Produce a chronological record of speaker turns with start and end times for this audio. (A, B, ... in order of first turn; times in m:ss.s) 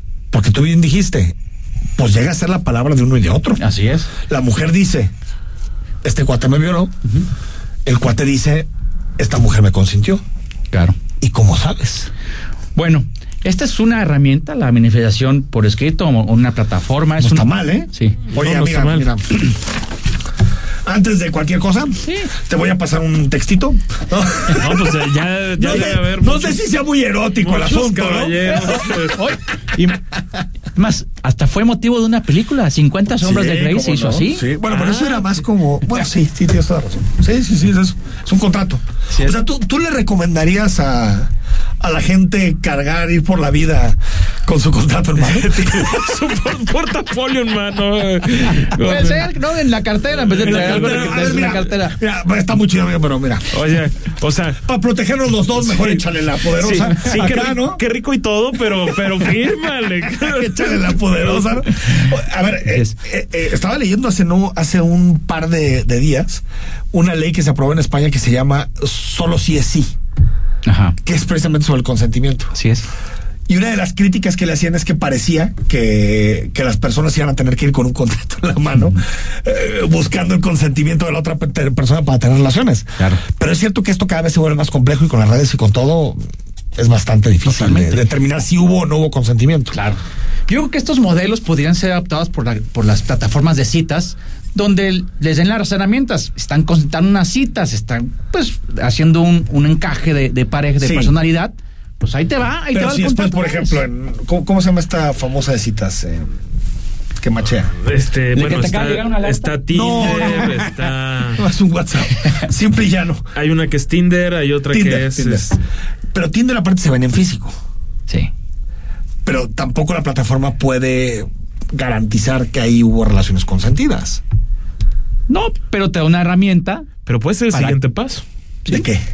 0:00.3-0:01.4 A
0:02.0-0:03.6 A
0:03.6-0:04.1 B
0:04.2-0:05.1 A
0:06.0-0:06.9 A
0:07.8-0:10.2 A
0:10.7-0:11.0 B
0:11.2-0:12.1 A
0:12.8-0:18.3 B
0:17.2-0:19.4 A
0:18.3-0:19.1 C
0:20.8-0:24.9 A
0:22.0-0:22.3 B
0:24.6-0:26.6 C
0:25.6-0:28.5 A
0:27.4-0:29.3 C
0:28.4-0:30.2 B
0:30.7-0:34.6 B
0:33.2-0:45.9 A
0:34.7-0:35.4 C
0:39.1-0:39.4 B
0:45.2-0:49.3 C
0:48.8-0:52.0 B
0:50.2-0:51.5 C
0:50.3-0:53.5 A
0:53.5-0:54.6 C
0:54.6-0:57.8 A
0:55.6-0:56.0 C
0:56.6-1:01.5 C
1:00.0-1:09.9 A
1:10.6-1:11.0 B
1:11.0-1:12.5 A
1:12.5-1:12.8 B
1:13.5-1:26.2 A
1:26.8-1:29.8 A
1:27.4-1:28.0 B
1:29.7-1:43.8 B
1:40.8-1:41.1 A
1:42.7-1:46.3 A
1:47.2-1:47.7 A
1:47.8-1:51.4 C
1:48.3-1:50.6 B
1:49.7-1:50.7 A
1:51.4-1:53.3 A
1:53.3-1:55.5 C
1:54.7-1:55.6 A
1:56.1-1:57.5 A
1:59.2-2:04.2 A
2:05.3-2:07.0 B
2:07.0-2:08.2 C
2:07.5-2:07.8 B
2:08.7-2:09.0 A